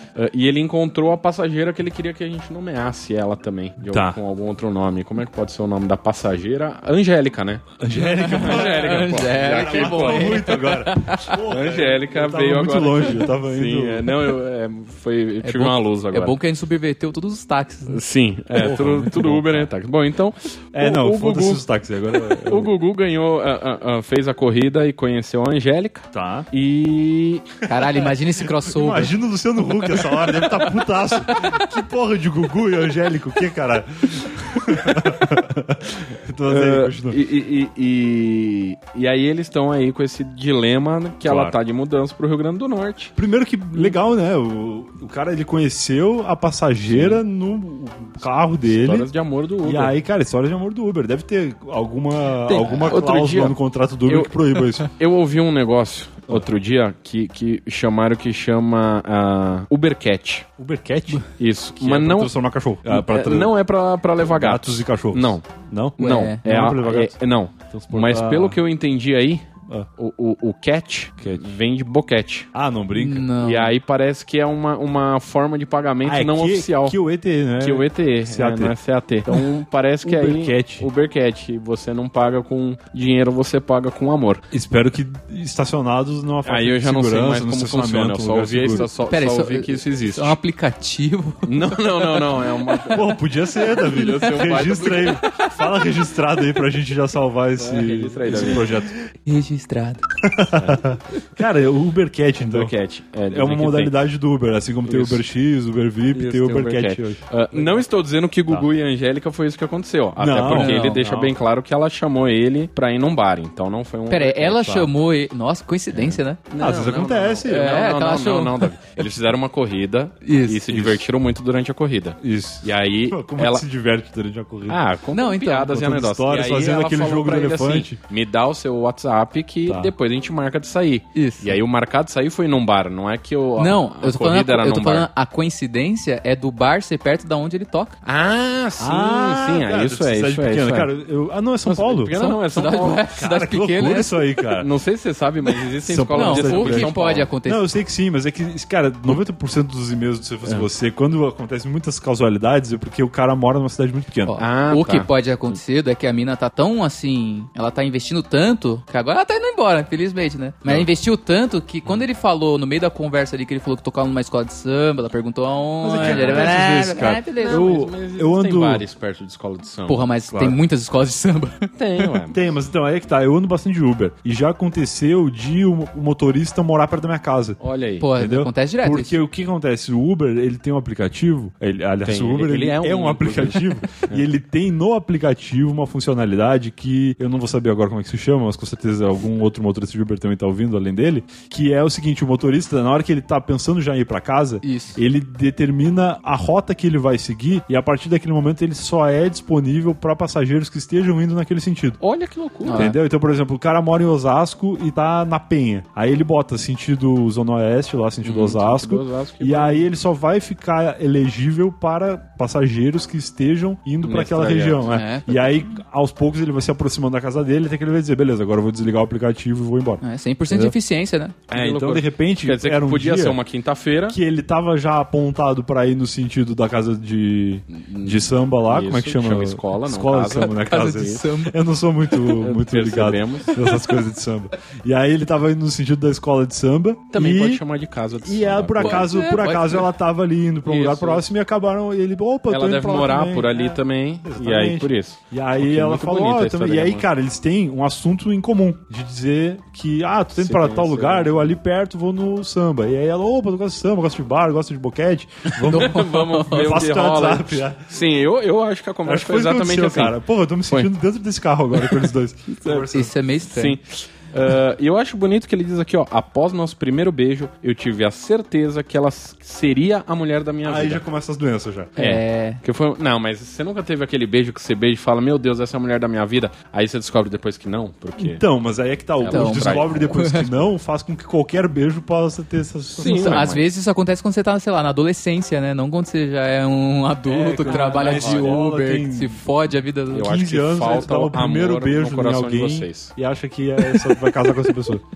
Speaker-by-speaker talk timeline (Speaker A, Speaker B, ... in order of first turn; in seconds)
Speaker A: 0.1-7.7, 8.3-10.6, 11.5-16.4, 17.9-27.5, 34.9-35.3, 36.5-43.2, 46.9-47.2, 48.6-50.0, 52.5-60.5, 61.4-65.5, 66.0-69.5, 70.0-72.5, 73.4-77.0, 77.6-84.4, 86.5-90.4, 91.5-93.1, 93.7-95.2, 97.6-98.7, 100.5-101.0, 102.4-104.0, 104.8-105.3, 106.1-114.8, 115.9-123.7, 124.7-135.1, 138.0-140.9, 141.7-143.0, 144.6-147.3, 154.4-155.6, 166.0-170.1, 171.8-172.4, 177.6-178.1, 182.0-184.2, 202.0-202.9, 208.2-209.9, 214.0-215.0, 221.5-224.2, 227.7-231.2, 232.4-233.6, 237.1-239.1, 240.6-241.2, 242.5-247.1, 250.3-251.6, 255.7-260.2, 261.8-262.9, 263.5-271.0, 272.0-278.5, 279.2-280.1, 283.0-283.7, 287.6-288.6, 290.1-293.1
Speaker B: 3.8-4.2, 7.8-14.4, 18.5-19.7, 20.7-22.7, 26.1-26.5, 27.8-37.2, 41.2-41.6, 43.2-49.1, 49.6-54.9, 60.6-61.3, 61.8-63.6, 64.2-67.2, 67.7-68.6, 71.2-71.6, 72.5-73.3, 76.0-78.8, 80.0-80.9, 84.5-88.9, 92.9-99.1, 100.2-102.7, 103.3-107.9, 110.2-110.9, 114.6-114.9, 116.6-117.8, 120.7-121.0, 122.2-124.8, 125.6-128.0, 129.7-129.9, 138.8-142.2, 143.1-144.7, 145.8-154.4, 165.8-168.9, 170.3-170.6, 172.3-177.6, 178.2-202.0, 202.7-220.8, 221.5-223.4, 224.1-237.6, 238.2-257.8, 259.1-263.1, 270.6-271.9, 278.2-283.5, 287.3-289.4, 290.1-295.0
Speaker C: 8.0-11.5, 15.4-18.0, 27.7-31.7, 52.6-52.9, 66.0-66.4, 73.0-73.8, 88.8-93.0, 93.6-94.5, 95.1-95.6, 98.3-98.6, 99.2-100.0, 110.5-111.3, 114.1-116.4, 117.5-118.7, 120.2-120.6, 125.1-125.7, 131.1-131.6, 133.6-138.0, 142.2-144.4, 146.1-147.7, 154.2-167.8, 169.9-172.1, 178.0-179.2, 194.6-195.0, 202.7-203.0, 214.9-215.6, 220.0-221.4, 230.4-231.6, 238.8-239.9, 255.7-256.9, 262.9-263.8, 272.0-272.6, 279.3-280.6, 283.2-290.3